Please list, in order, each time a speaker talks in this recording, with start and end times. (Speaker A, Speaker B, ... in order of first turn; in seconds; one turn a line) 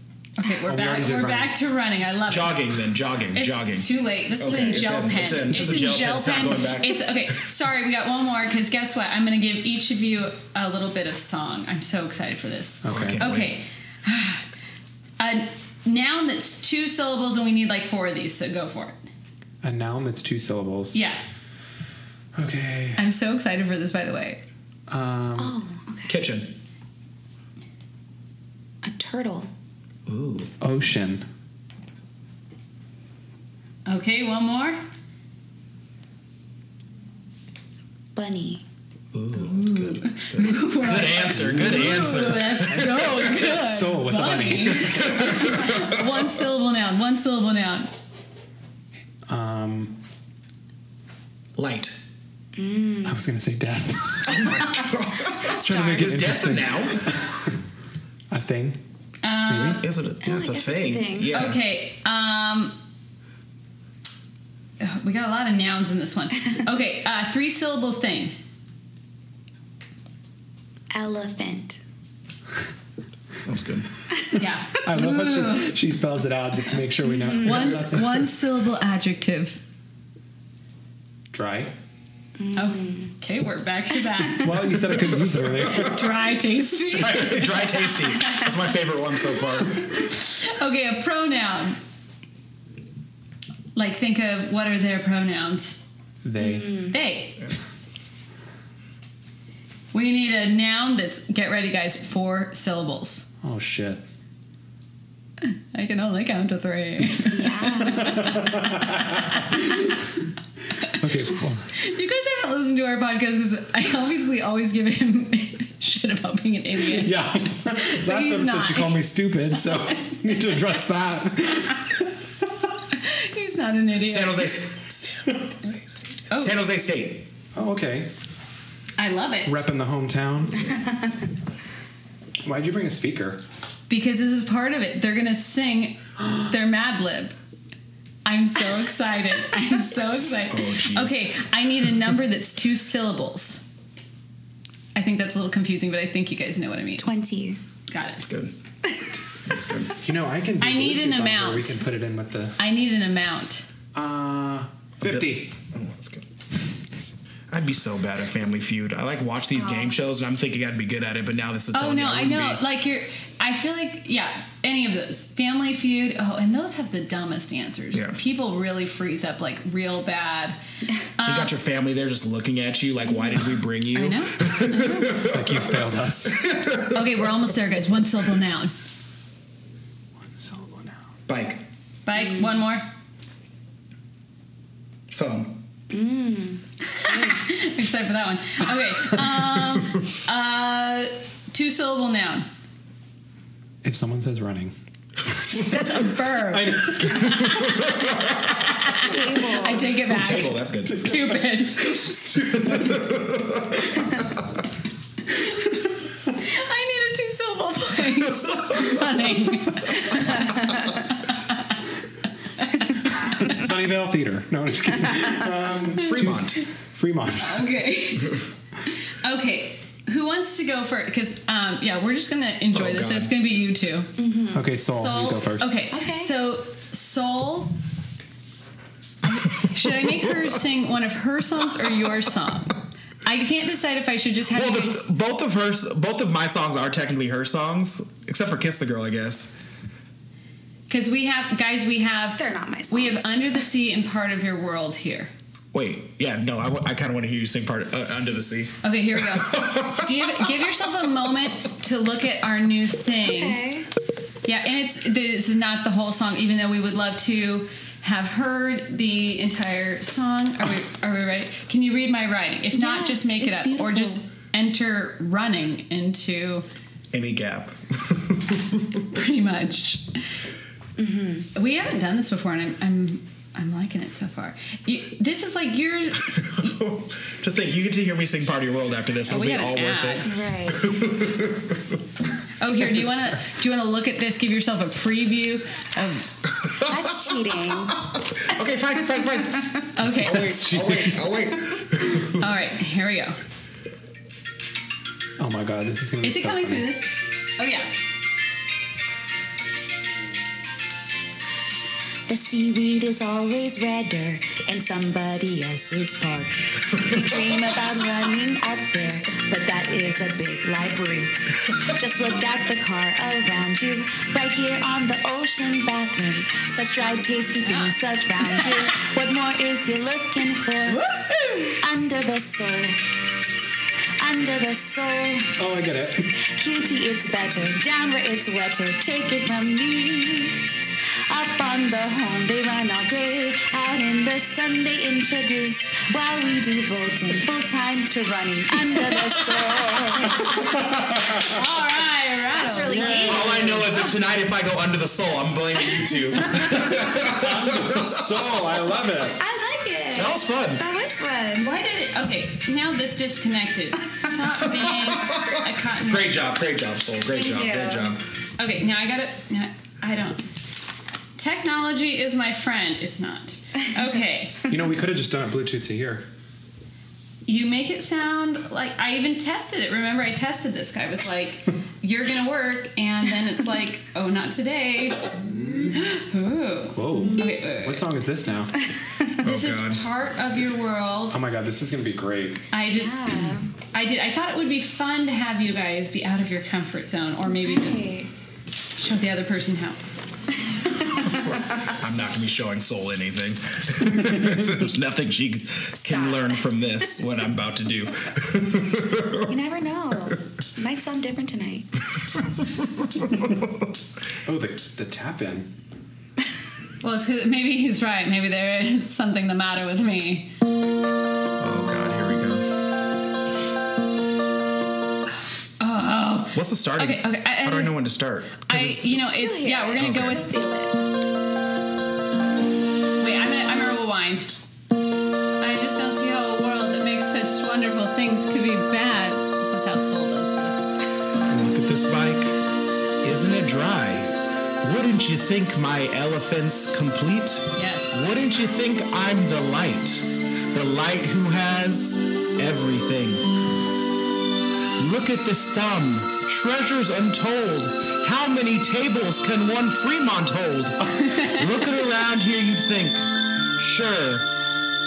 Speaker A: 0.4-2.6
Speaker B: 0.6-1.5
Speaker C: 2.3-7.0
Speaker A: 3.3-14.4
Speaker B: 12.8-13.2
Speaker C: 12.8-13.6
Speaker A: 15.2-19.0
Speaker B: 19.6-21.0
Speaker A: 20.9-21.2
Speaker B: 22.3-23.0
Speaker A: 23.0-24.4
Speaker B: 24.9-25.6
Speaker D: 25.4-26.2
Speaker C: 26.1-26.5
Speaker D: 28.8-29.5
Speaker C: 30.1-30.5
Speaker B: 30.6-31.2
Speaker A: 33.9-34.8
Speaker D: 38.1-38.6
Speaker C: 39.1-43.3
Speaker A: 39.4-47.9
Speaker B: 41.2-45.6
Speaker C: 44.8-46.0
Speaker B: 49.3-49.9
Speaker C: 51.6-52.0
Speaker D: 52.5-53.2
Speaker B: 53.0-54.6
Speaker D: 54.3-56.1
Speaker C: 54.3-57.1
Speaker B: 55.6-57.5
Speaker B: 58.3-58.8
Speaker A: 59.2-59.8
Speaker B: 59.5-59.8
Speaker C: 59.7-61.6
Speaker D: 60.2-61.5
Speaker A: 61.3-62.7
Speaker A: 64.8-68.3
Speaker D: 70.9-71.8
Speaker C: 73.4-73.9
Speaker A: 74.3-75.8
Speaker B: 74.7-78.3
Speaker D: 77.0-77.8
Speaker A: 77.4-79.6
Speaker B: 81.3-81.7
Speaker D: 82.4-83.1
Speaker A: 82.5-84.7
Speaker B: 84.4-86.1
Speaker A: 85.6-88.4
Speaker C: 87.0-89.9
Speaker B: 87.1-87.4
Speaker A: 89.6-91.8
Speaker A: 93.7-95.8
Speaker B: 96.2-96.7
Speaker D: 96.4-96.9
Speaker A: 96.8-97.5
Speaker A: 99.9-103.3
Speaker B: 103.4-104.0
Speaker A: 105.4-110.0
Speaker D: 107.3-108.3
Speaker B: 107.8-109.9
Speaker B: 110.9-111.7
Speaker A: 111.7-120.6
Speaker B: 116.9-122.5
Speaker A: 122.9-124.6
Speaker C: 124.0-127.3
Speaker A: 126.3-126.6
Speaker B: 127.5-128.1
Speaker A: 129.0-129.7
Speaker B: 129.4-130.7
Speaker D: 130.6-131.2
Speaker B: 132.4-133.4
Speaker A: 133.9-137.3
Speaker A: 138.2-143.6
Speaker C: 140.2-141.3
Speaker A: 144.9-147.1
Speaker D: 147.0-147.6
Speaker A: 147.9-148.2
Speaker C: 148.2-148.5
Speaker D: 148.8-149.5
Speaker C: 149.4-150.0
Speaker B: 150.0-152.6
Speaker A: 150.6-151.8
Speaker A: 152.6-153.7
Speaker B: 153.9-155.5
Speaker C: 155.0-156.2
Speaker C: 157.5-162.6
Speaker D: 159.5-160.0
Speaker A: 161.7-170.6
Speaker A: 171.2-171.5
Speaker C: 171.2-177.3
Speaker A: 173.9-175.1
Speaker B: 175.2-176.3
Speaker A: 176.9-178.7
Speaker B: 180.2-181.0
Speaker C: 181.3-181.6
Speaker A: 182.1-182.8
Speaker D: 182.1-182.6
Speaker C: 185.1-185.6
Speaker D: 185.9-187.4
Speaker A: 186.9-192.5
Speaker B: 193.8-194.7
Speaker B: 195.2-197.8
Speaker A: 195.5-202.4
Speaker C: 197.2-198.6
Speaker D: 199.0-199.9
Speaker C: 199.9-201.4
Speaker B: 200.9-203.0
Speaker C: 202.3-204.6
Speaker A: 205.3-205.7
Speaker A: 206.3-211.8
Speaker C: 208.2-209.1
Speaker A: 212.6-213.6
Speaker B: 213.3-217.7
Speaker A: 216.0-216.3
Speaker C: 216.0-216.6
Speaker A: 217.4-224.1
Speaker C: 222.7-223.3
Speaker D: 224.2-224.7
Speaker B: 224.5-225.7
Speaker A: 224.9-227.7
Speaker D: 225.9-226.3
Speaker A: 229.2-235.0
Speaker C: 229.8-230.4
Speaker C: 234.5-239.6
Speaker A: 240.9-245.3
Speaker D: 242.3-243.6
Speaker C: 245.7-250.5
Speaker A: 248.8-253.6
Speaker D: 253.2-253.9
Speaker A: 254.4-266.6
Speaker D: 262.7-264.2
Speaker C: 267.1-269.0
Speaker A: 269.1-270.2
Speaker D: 271.0-271.5
Speaker A: 271.5-276.7
Speaker C: 276.2-282.0
Speaker A: 279.2-280.3
Speaker D: 280.2-280.9
Speaker A: 282.6-286.3
Speaker C: 286.6-286.9
Speaker D: 286.8-288.0
Speaker C: 288.2-292.5
Speaker A: 289.9-290.6
Speaker B: 290.1-291.3
Speaker A: 292.4-293.4
Speaker B: 295.4-296.9
Speaker A: 296.2-297.9
Speaker D: 302.3-321.0
Speaker C: 307.0-307.5
Speaker A: 317.6-318.8
Speaker A: 320.9-321.8
Speaker D: 321.8-323.0
Speaker D: 324.2-325.6
Speaker B: 325.6-326.3
Speaker D: 326.4-330.7
Speaker D: 331.3-340.5
Speaker A: 340.3-340.7
Speaker B: 340.3-341.5
Speaker A: 341.3-343.3
Speaker D: 342.5-344.2
Speaker B: 342.9-343.9
Speaker C: 343.1-348.6
Speaker D: 346.0-346.7
Speaker B: 346.5-349.4
Speaker D: 349.3-351.7
Speaker C: 350.1-350.8
Speaker A: 351.6-356.4
Speaker C: 354.7-358.2
Speaker D: 357.3-358.2
Speaker A: 358.6-360.4
Speaker A: 361.4-364.6
Speaker B: 364.6-366.2
Speaker A: 367.4-375.3
Speaker A: 375.9-378.1
Speaker B: 376.9-378.9
Speaker D: 377.1-377.4
Speaker D: 378.9-379.3
Speaker C: 379.4-380.0
Speaker A: 379.4-381.4
Speaker B: 381.3-382.6
Speaker A: 382.7-388.1
Speaker D: 382.9-383.7
Speaker D: 387.5-388.3
Speaker A: 388.9-390.0
Speaker D: 390.6-391.6
Speaker C: 391.3-399.5
Speaker D: 395.9-396.8
Speaker D: 399.5-401.9
Speaker C: 402.4-403.7
Speaker B: 404.4-405.7
Speaker A: 407.0-410.5
Speaker C: 411.6-412.7
Speaker A: 415.8-417.9
Speaker C: 416.5-419.2
Speaker A: 418.7-420.5
Speaker D: 419.4-420.9
Speaker C: 420.0-420.4
Speaker A: 423.2-424.5
Speaker A: 425.6-430.9
Speaker C: 431.4-432.6
Speaker C: 433.2-443.5
Speaker A: 437.7-438.2
Speaker C: 445.0-454.4
Speaker A: 451.2-451.7